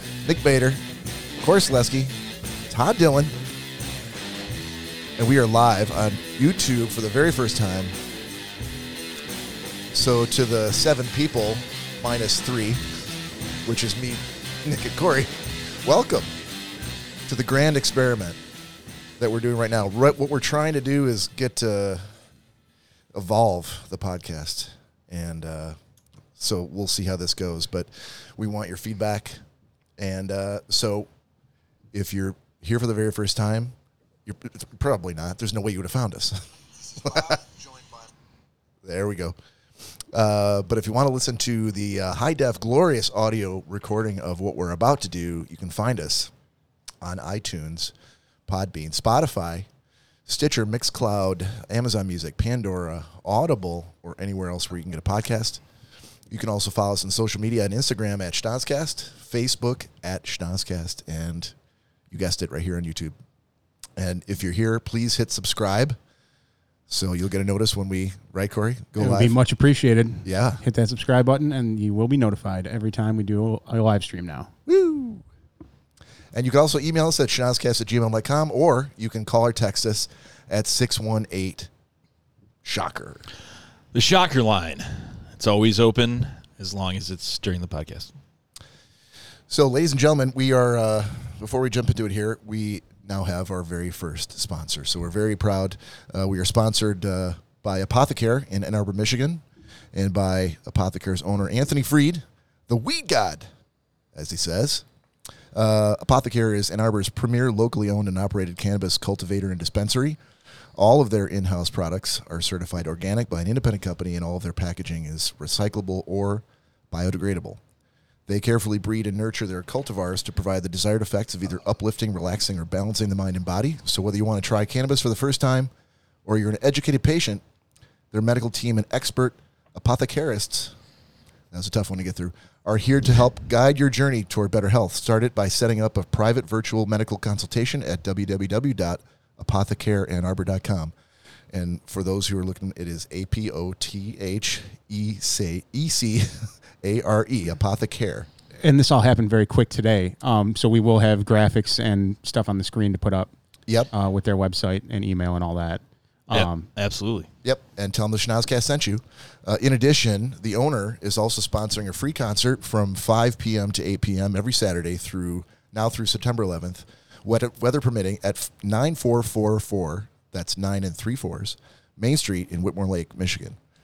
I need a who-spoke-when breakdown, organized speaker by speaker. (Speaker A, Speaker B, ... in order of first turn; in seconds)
Speaker A: 0.2-0.8, 1.4-2.2, 2.7-3.4, 5.2-7.9, 9.9-12.9, 13.7-16.3, 17.3-18.4, 19.2-22.0, 23.1-25.8, 26.4-29.4, 30.0-31.1, 31.9-38.1, 38.8-39.4, 40.1-46.3, 47.0-47.9, 48.5-49.7, 50.2-55.6, 56.3-61.5, 62.1-63.1, 64.0-66.0, 66.9-69.4, 70.2-70.6, 74.7-75.2, 76.3-81.7, 82.6-83.2, 89.5-103.5, 104.1-104.8, 105.5-110.2, 110.8-117.6, 118.3-125.7, 126.2-127.4, 128.1-130.8, 131.5-140.9, 141.5-148.3, 157.4-173.6
Speaker B: 69.0-74.5, 148.6-153.3, 153.9-156.7
Speaker C: 83.9-88.1, 156.3-157.3